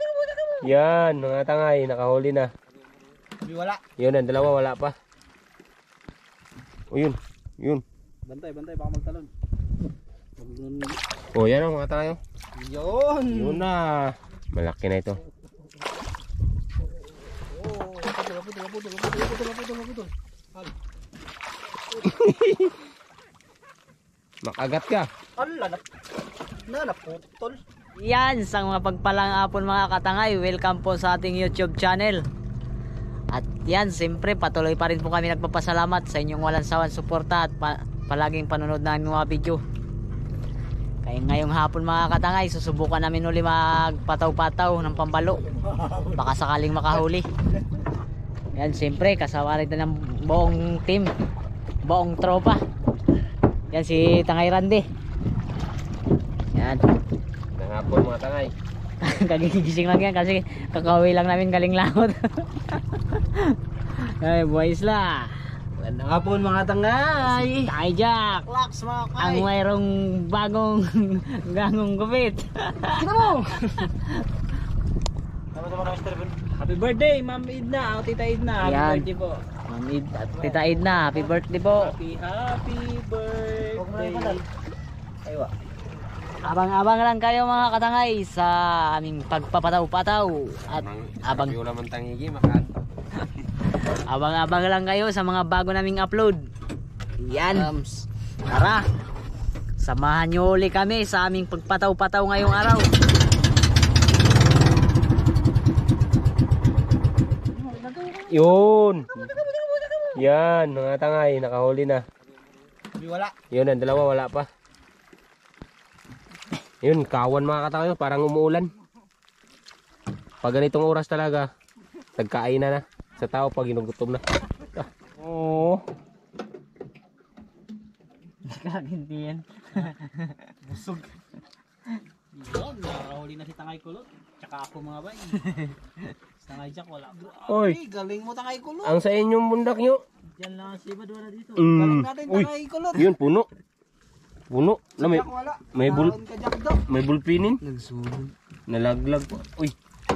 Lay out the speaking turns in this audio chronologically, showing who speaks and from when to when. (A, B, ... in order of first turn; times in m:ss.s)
0:00.6-0:02.5 A
0:03.4-0:03.8 B
0:04.0-0:04.9 A
0:06.9-0:07.8 A
0:08.3-0:09.3 B
0:10.4-0:11.0 B
0:11.3-0:12.2 A
0:12.6-0:13.6 B
0:13.3-0:15.2 A
0:17.4-0:20.8 B
0:22.1-0:22.8 A
0:24.4-0:25.1 A
0:25.4-0:25.8 B
0:26.7-0:27.6 B
0:28.0-0:32.2 C
0:33.3-0:39.6 C
0:41.0-0:45.4 C
0:45.6-0:46.3 B
0:46.2-0:47.3 C
0:48.6-0:51.1 C
0:51.8-0:52.6 C
0:53.7-0:54.8 C
0:56.5-0:56.8 C
0:57.6-0:58.5 A
0:59.0-1:05.3 C
1:05.8-1:07.7 B
1:07.2-1:08.4 C
1:08.5-1:09.5 B
1:09.2-1:13.0 C
1:13.0-1:13.9 B
1:15.5-1:19.4 B
1:18.6-1:19.1 C
1:19.7-1:22.0 C
1:20.4-1:24.4 B
1:24.0-1:24.4 C
1:25.2-1:25.5 B
1:26.4-1:31.6 C
1:30.7-1:32.7 A
1:34.1-1:36.4 C
1:37.2-1:38.8 C
1:39.8-1:42.9 C
1:47.5-1:48.6 B
1:48.3-1:49.1 A
1:50.2-1:52.0 A
1:53.0-1:53.3 B
1:53.5-1:54.5 A
1:56.8-1:58.7 A
2:00.4-2:01.5 A
2:02.2-2:05.8 A
2:08.4-2:10.3 C
2:10.6-2:11.1 B
2:12.3-2:15.6 B
2:16.4-2:19.0 B
2:17.5-2:17.8 A
2:18.8-2:20.0 A
2:20.4-2:23.1 B
2:21.6-2:23.5 A
2:24.5-2:26.2 A
2:25.0-2:26.8 B
2:26.9-2:27.6 A
2:27.7-2:28.3 C
2:28.7-2:29.8 A